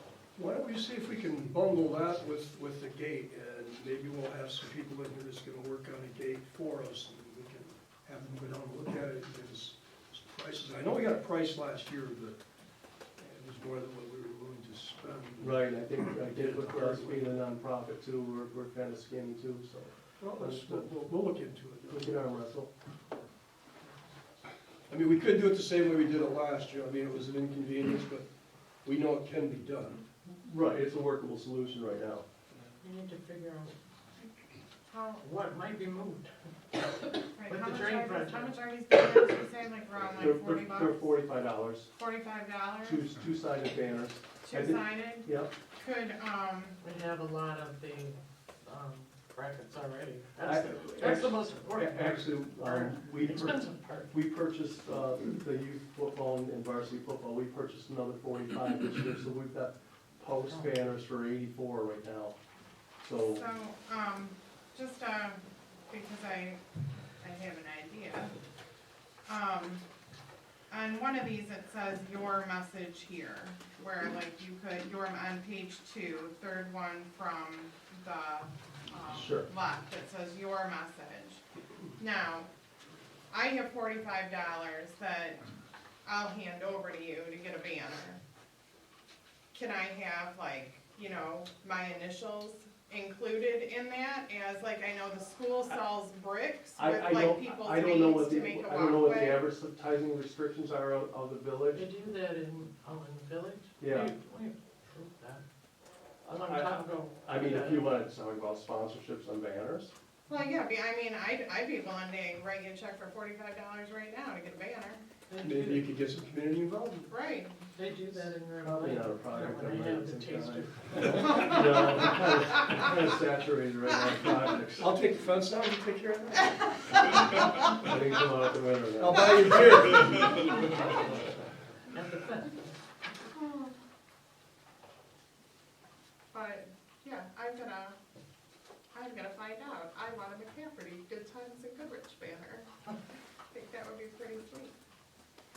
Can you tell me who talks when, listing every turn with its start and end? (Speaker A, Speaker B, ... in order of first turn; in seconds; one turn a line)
Speaker A: 0.3-12.4
Speaker A: 13.2-17.3
Speaker B: 15.4-20.9
Speaker A: 20.2-22.2
Speaker B: 21.9-22.7
Speaker A: 24.9-28.3
Speaker A: 28.8-30.0
Speaker B: 30.4-32.2
Speaker C: 32.8-33.8
Speaker D: 34.9-35.2
Speaker C: 35.2-36.3
Speaker D: 37.4-41.1
Speaker C: 37.4-38.6
Speaker B: 40.2-41.9
Speaker D: 41.9-43.0
Speaker B: 42.8-45.5
Speaker D: 44.4-46.8
Speaker C: 46.8-54.1
Speaker B: 50.4-62.4
Speaker B: 63.0-63.5
Speaker D: 63.2-66.6
Speaker D: 67.2-68.3
Speaker D: 69.2-69.8
Speaker D: 70.7-81.4
Speaker B: 79.1-79.5
Speaker D: 82.0-82.5
Speaker D: 83.3-85.5
Speaker D: 86.0-88.2
Speaker D: 89.5-99.4
Speaker B: 96.8-101.8
Speaker C: 101.7-105.4
Speaker B: 103.8-104.1
Speaker C: 106.2-108.0
Speaker B: 106.4-109.9
Speaker D: 110.3-115.0
Speaker C: 115.3-115.9
Speaker A: 115.4-117.1
Speaker D: 117.1-117.6
Speaker C: 117.7-121.5
Speaker B: 118.6-124.9
Speaker A: 124.8-126.7
Speaker B: 127.6-129.6
Speaker A: 129.0-130.9
Speaker C: 131.9-132.6
Speaker D: 133.3-133.7
Speaker D: 136.3-138.0
Speaker D: 138.9-142.7
Speaker D: 143.5-144.8